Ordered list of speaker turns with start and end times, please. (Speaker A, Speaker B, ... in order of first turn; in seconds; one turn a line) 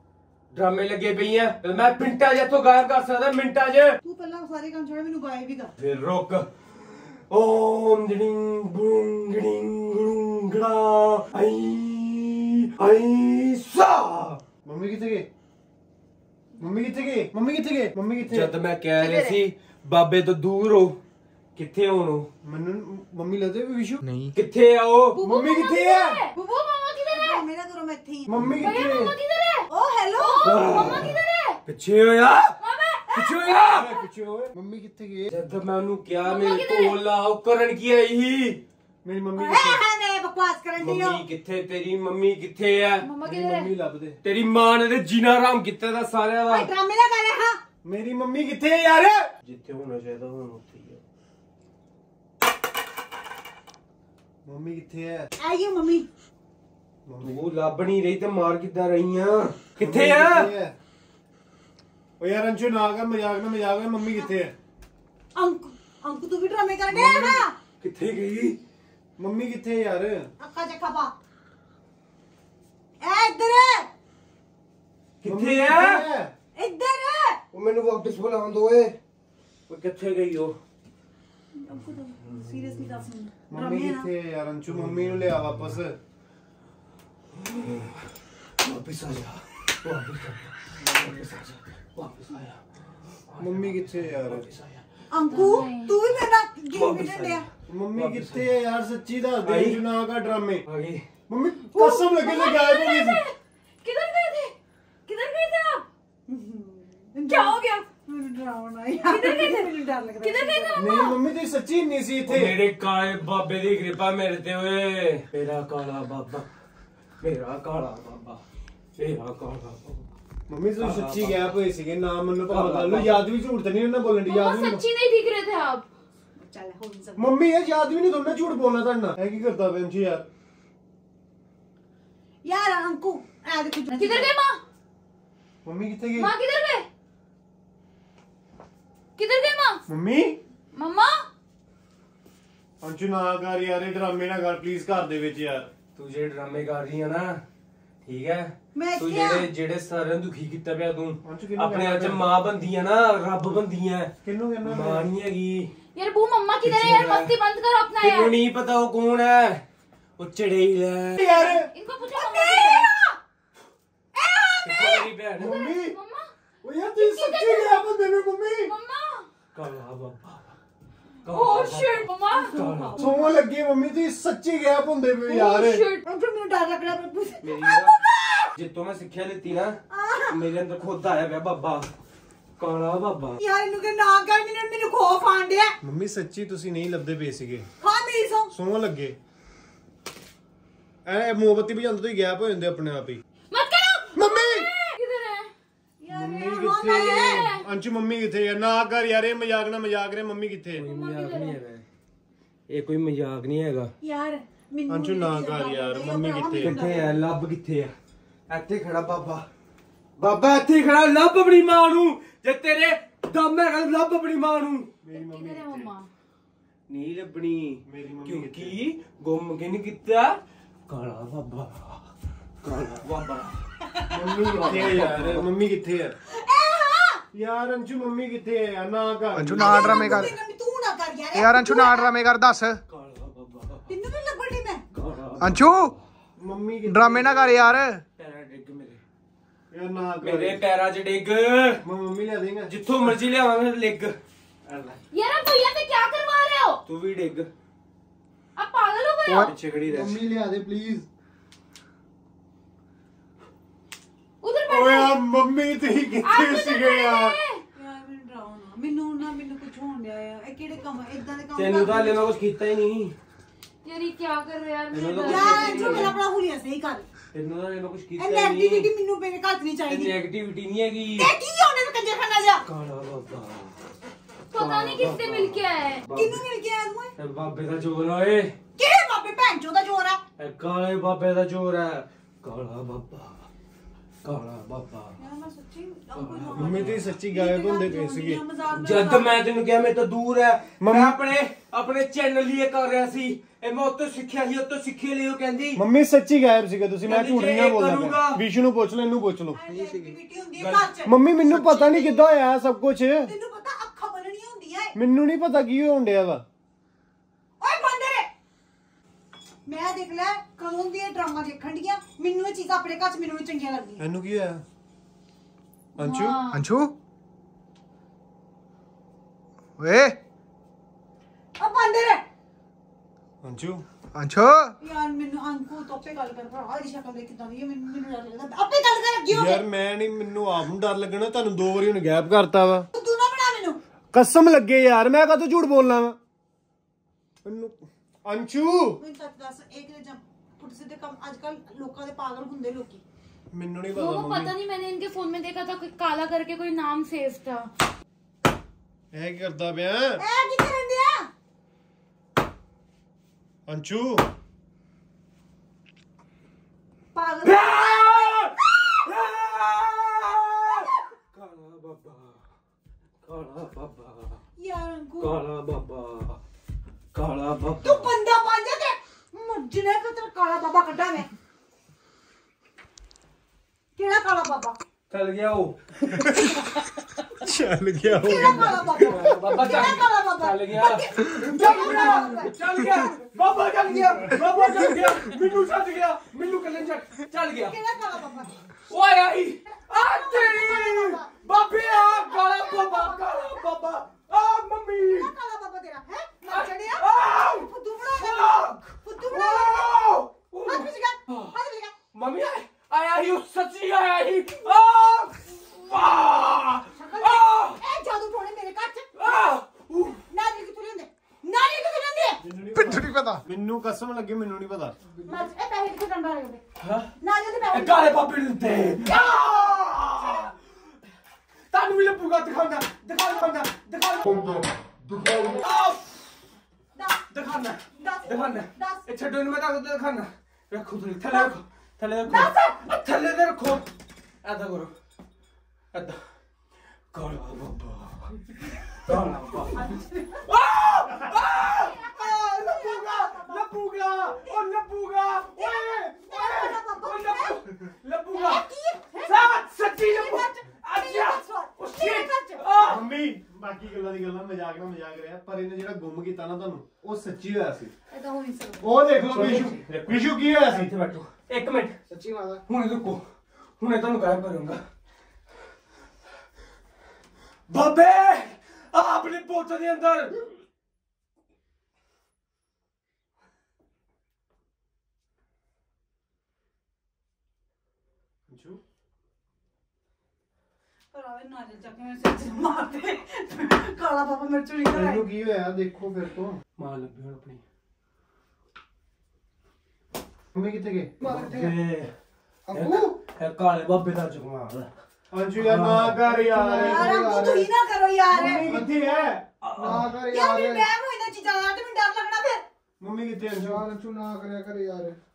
Speaker A: 0.5-4.0
Speaker B: 4.0-5.7
Speaker A: 5.8-14.4
Speaker C: 14.6-15.3
Speaker C: 16.6-18.5
Speaker A: 18.2-21.0
Speaker D: 19.0-19.4
Speaker A: 21.6-22.3
Speaker C: 22.4-24.0
Speaker A: 24.3-25.2
Speaker D: 25.1-27.4
Speaker C: 25.2-26.2
Speaker B: 27.1-28.5
Speaker C: 28.3-29.1
Speaker D: 28.6-31.6
Speaker B: 29.7-30.9
Speaker A: 30.4-32.6
Speaker D: 32.6-33.6
Speaker A: 33.1-34.0
Speaker C: 33.6-35.3
Speaker A: 35.3-38.6
Speaker D: 36.2-37.0
Speaker C: 39.0-39.8
Speaker B: 39.4-41.2
Speaker A: 40.8-43.1
Speaker D: 43.0-43.7
Speaker C: 43.2-44.2
Speaker A: 44.2-46.7
Speaker B: 46.5-47.6
Speaker C: 47.8-49.3
Speaker A: 49.4-51.0
Speaker C: 54.4-55.3
Speaker B: 55.4-56.1
Speaker C: 57.0-57.4
Speaker A: 57.2-60.5
Speaker C: 59.8-60.8
Speaker C: 62.2-64.5
Speaker B: 65.3-67.5
Speaker C: 66.9-67.4
Speaker A: 67.8-68.6
Speaker C: 69.2-70.3
Speaker B: 70.4-71.1
Speaker B: 73.0-73.9
Speaker A: 75.2-76.1
Speaker C: 75.2-76.3
Speaker B: 76.5-77.4
Speaker A: 77.5-79.0
Speaker A: 79.7-80.6
Speaker B: 81.6-84.1
Speaker A: 82.2-83.0
Speaker C: 83.5-86.0
Speaker A: 84.7-85.7
Speaker A: 87.3-88.1
Speaker A: 88.6-95.6
Speaker C: 93.4-94.5
Speaker B: 95.1-97.5
Speaker D: 95.3-95.9
Speaker A: 96.7-98.5
Speaker C: 97.7-100.6
Speaker A: 99.4-99.8
Speaker A: 100.6-101.1
Speaker C: 101.3-103.2
Speaker B: 101.7-102.1
Speaker D: 101.8-104.5
Speaker D: 105.0-105.8
Speaker B: 106.3-111.1
Speaker D: 107.3-107.9
Speaker D: 109.0-111.2
Speaker C: 110.7-112.6
Speaker A: 112.3-116.5
Speaker A: 117.2-118.4
Speaker A: 119.0-120.1
Speaker C: 120.5-124.8
Speaker A: 120.8-121.6
Speaker A: 122.4-123.3
Speaker D: 124.3-125.9
Speaker B: 126.3-127.3
Speaker C: 127.2-130.3
Speaker B: 132.4-134.3
Speaker D: 133.9-134.6
Speaker C: 135.6-136.3
Speaker D: 136.1-136.8
Speaker D: 139.2-139.8
Speaker C: 139.9-140.4
Speaker D: 140.7-141.2
Speaker C: 142.8-145.7
Speaker A: 145.9-147.4
Speaker A: 148.0-155.7
Speaker B: 148.7-149.5
Speaker C: 151.2-152.3
Speaker C: 154.2-155.1
Speaker D: 155.9-158.3
Speaker A: 156.6-157.3
Speaker A: 158.0-159.6
Speaker A: 160.2-161.5
Speaker C: 161.1-161.7
Speaker D: 161.4-162.9
Speaker B: 162.1-163.2
Speaker B: 164.1-165.1
Speaker A: 164.6-165.6
Speaker C: 165.4-165.9
Speaker D: 165.4-166.3
Speaker C: 166.6-168.7
Speaker D: 166.8-167.9
Speaker D: 168.6-169.3
Speaker A: 169.5-170.6
Speaker A: 171.2-173.0
Speaker D: 171.3-173.2
Speaker B: 172.3-173.3
Speaker C: 173.0-175.8
Speaker D: 175.2-176.0
Speaker B: 176.0-178.5
Speaker A: 177.4-177.9
Speaker A: 178.5-181.9
Speaker B: 179.9-180.4
Speaker A: 182.6-183.4
Speaker B: 183.4-185.7
Speaker C: 185.8-187.7
Speaker B: 187.8-188.5
Speaker C: 188.5-189.2
Speaker C: 191.1-193.2
Speaker D: 193.5-195.5
Speaker C: 194.2-194.7
Speaker B: 196.0-197.5
Speaker C: 196.1-200.9
Speaker D: 196.8-197.7
Speaker A: 200.7-201.8
Speaker D: 200.8-201.6
Speaker A: 202.7-203.9
Speaker B: 204.0-207.2
Speaker C: 204.9-206.8
Speaker A: 206.6-207.9
Speaker A: 208.5-209.5
Speaker A: 210.2-214.9
Speaker C: 215.0-215.9
Speaker D: 215.1-216.1
Speaker A: 216.9-222.1
Speaker C: 217.8-218.8
Speaker A: 222.6-223.6
Speaker C: 224.1-226.1
Speaker A: 224.2-225.5
Speaker B: 226.3-227.2
Speaker C: 227.3-230.0
Speaker E: 229.3-230.4
Speaker B: 229.5-232.2
Speaker E: 231.3-232.8
Speaker A: 232.9-233.9
Speaker B: 233.9-234.8
Speaker A: 234.9-236.0
Speaker E: 235.4-235.9
Speaker C: 236.4-237.7
Speaker E: 236.9-238.0
Speaker A: 238.2-239.0
Speaker C: 239.7-240.6
Speaker A: 240.2-241.8
Speaker C: 241.8-242.7
Speaker A: 242.6-245.0
Speaker D: 245.1-246.8
Speaker A: 246.8-247.5
Speaker D: 248.6-249.5
Speaker E: 249.2-251.0
Speaker A: 249.4-250.2
Speaker C: 249.9-250.6
Speaker D: 254.4-255.2
Speaker C: 254.7-257.4
Speaker D: 256.2-257.6
Speaker B: 257.8-262.3
Speaker A: 261.5-263.1
Speaker D: 263.8-266.2
Speaker A: 264.9-266.2
Speaker B: 265.2-267.0
Speaker A: 267.3-268.9
Speaker B: 268.2-270.2
Speaker A: 269.9-271.3
Speaker B: 271.2-272.6
Speaker A: 272.6-273.7
Speaker D: 274.5-276.0
Speaker A: 274.5-276.4
Speaker B: 276.1-277.1
Speaker A: 277.1-278.6
Speaker B: 278.8-280.2
Speaker A: 280.4-283.5
Speaker A: 284.2-285.2
Speaker B: 285.2-289.4
Speaker A: 286.1-287.0
Speaker C: 286.5-288.4
Speaker A: 288.7-295.8
Speaker C: 290.8-291.2
Speaker C: 295.8-299.6
Speaker A: 297.0-298.4
Speaker B: 299.5-302.2
Speaker E: 299.7-300.1
Speaker A: 300.6-300.9
Speaker C: 301.0-303.3
Speaker B: 303.2-304.9
Speaker C: 304.9-306.4
Speaker B: 307.6-308.3
Speaker B: 309.6-314.0
Speaker C: 314.0-314.6
Speaker C: 315.9-316.4
Speaker D: 316.0-316.6
Speaker E: 316.5-316.9
Speaker E: 319.8-320.2
Speaker B: 321.6-322.2
Speaker C: 323.4-323.8
Speaker E: 324.1-324.7
Speaker B: 324.8-329.6
Speaker C: 329.3-332.9
Speaker B: 332.9-333.8
Speaker C: 334.1-336.2
Speaker C: 337.4-339.0
Speaker B: 339.0-343.0
Speaker C: 343.5-344.5
Speaker D: 343.9-347.7
Speaker C: 349.1-350.2
Speaker B: 350.2-351.3
Speaker C: 353.7-354.2
Speaker B: 357.1-358.5
Speaker A: 357.4-362.4
Speaker A: 363.2-364.4
Speaker B: 364.6-365.4
Speaker A: 365.2-366.4
Speaker A: 367.1-368.1
Speaker B: 367.8-371.3
Speaker B: 374.0-374.8
Speaker A: 375.1-375.8
Speaker C: 377.4-379.3
Speaker B: 378.2-382.5
Speaker A: 378.3-387.8
Speaker B: 384.6-385.2
Speaker B: 387.6-388.5
Speaker A: 388.9-395.3
Speaker B: 389.7-393.7
Speaker B: 395.0-400.1
Speaker A: 396.4-401.6
Speaker B: 400.6-401.9
Speaker A: 402.1-407.8
Speaker B: 406.9-409.1
Speaker A: 409.1-410.2
Speaker B: 410.3-412.4
Speaker C: 412.4-415.0
Speaker E: 412.7-413.4
Speaker B: 415.2-416.6
Speaker A: 416.8-417.1
Speaker B: 417.2-418.2
Speaker A: 417.7-420.5
Speaker B: 419.1-419.8
Speaker A: 421.7-424.5
Speaker E: 424.4-424.6
Speaker E: 425.2-425.5
Speaker A: 425.3-426.3
Speaker B: 426.9-427.3
Speaker A: 427.3-433.9
Speaker B: 427.8-429.0
Speaker B: 432.3-432.6
Speaker A: 434.4-434.9
Speaker A: 435.9-436.2
Speaker A: 437.1-439.9
Speaker B: 439.7-440.4
Speaker A: 440.4-448.6
Speaker B: 441.8-443.7
Speaker B: 445.5-447.6
Speaker B: 448.3-452.6
Speaker A: 449.2-453.1
Speaker C: 452.8-457.9
Speaker B: 458.1-458.9
Speaker C: 458.8-460.9
Speaker A: 459.2-462.0
Speaker E: 462.1-462.6
Speaker A: 462.7-463.2
Speaker A: 463.8-464.8
Speaker A: 467.7-470.6
Speaker C: 478.5-478.8
Speaker B: 481.1-485.3
Speaker C: 484.9-486.6
Speaker A: 486.8-487.6
Speaker C: 490.5-491.1
Speaker E: 491.2-491.8
Speaker A: 491.2-492.1
Speaker E: 492.7-493.1
Speaker A: 492.7-494.9
Speaker C: 495.3-497.4
Speaker A: 495.6-496.2
Speaker E: 496.2-497.7
Speaker B: 496.7-498.9
Speaker E: 498.3-499.2
Speaker C: 498.4-499.4
Speaker A: 499.6-500.2
Speaker E: 499.8-500.9
Speaker B: 500.3-502.6
Speaker C: 503.0-503.9
Speaker E: 503.4-505.1